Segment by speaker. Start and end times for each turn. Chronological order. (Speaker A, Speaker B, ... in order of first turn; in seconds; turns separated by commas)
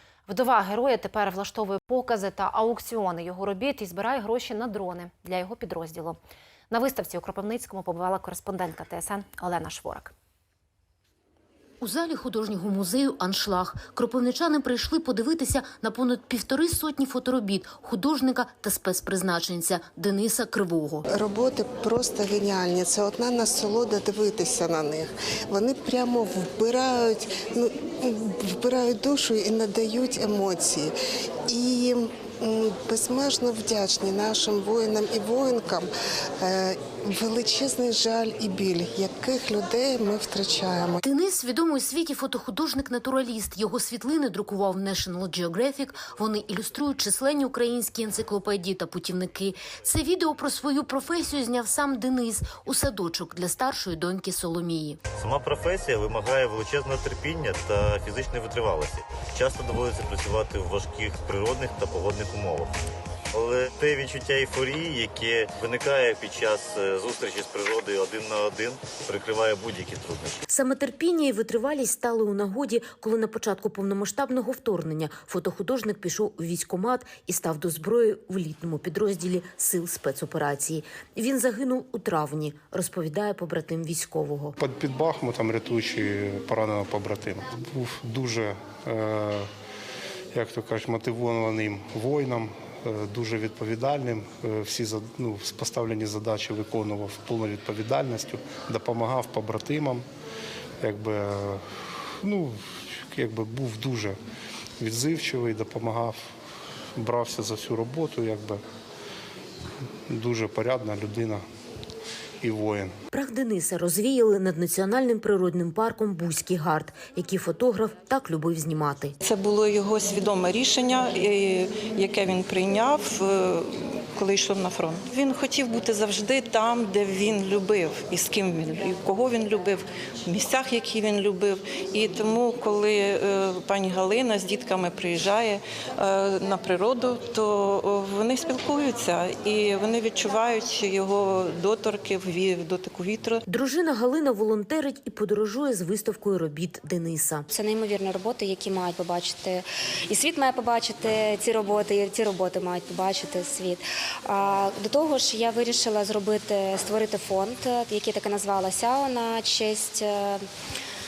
Speaker A: 0.3-6.2, Speaker A: 6.7-10.1, Speaker B: 11.8-21.0, Speaker C: 21.1-30.9, Speaker C: 31.5-35.9, Speaker C: 36.4-41.0, Speaker B: 41.0-55.0, Speaker D: 55.1-62.7, Speaker D: 63.3-70.4, Speaker B: 70.5-84.5, Speaker E: 84.6-89.5, Speaker E: 90.3-100.0, Speaker E: 100.8-101.6, Speaker E: 102.2-102.5, Speaker E: 103.1-104.2, Speaker E: 104.8-106.2, Speaker E: 107.0-108.6, Speaker E: 110.1-111.4, Speaker E: 112.4-112.9, Speaker B: 113.1-119.2, Speaker F: 119.2-143.4, Speaker B: 143.5-147.5, Speaker G: 147.5-160.4